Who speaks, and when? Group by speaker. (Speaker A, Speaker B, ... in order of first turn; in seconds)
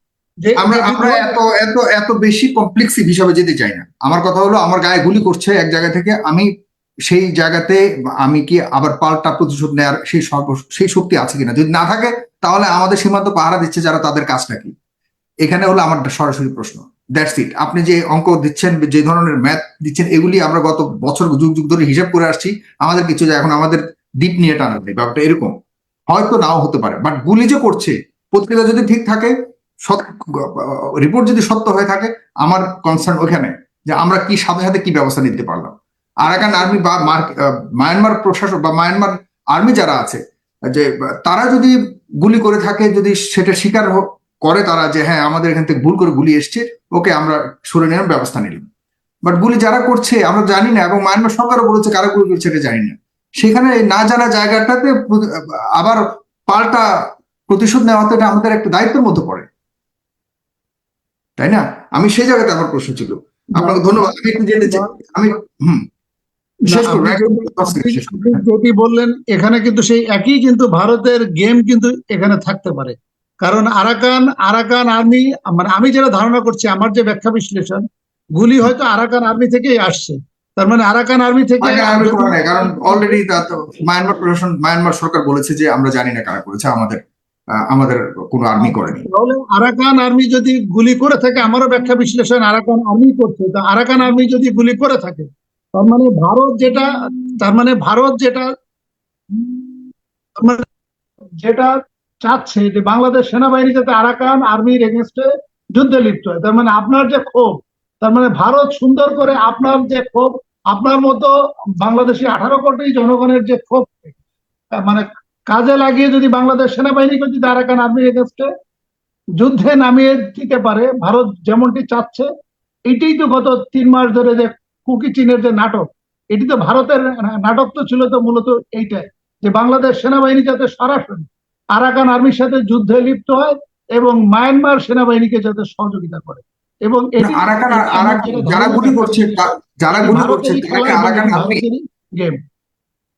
Speaker A: 0.4-1.4, 63.6-64.9, 66.7-77.8, 78.4-83.2, 88.6-98.5, 99.4-99.7, 100.4-100.7, 101.4-101.7, 102.2-114.2, 114.8-118.5, 119.4-122.3, 122.9-142.4
Speaker B: 0.6-6.5, 7.1-14.8, 15.5-25.5, 26.1-29.3, 29.9-40.2, 40.7-48.7, 49.3-56.8, 57.5-59.5, 61.4-65.8, 66.7-68.4, 81.6-87.0, 87.7-89.0, 137.2-141.6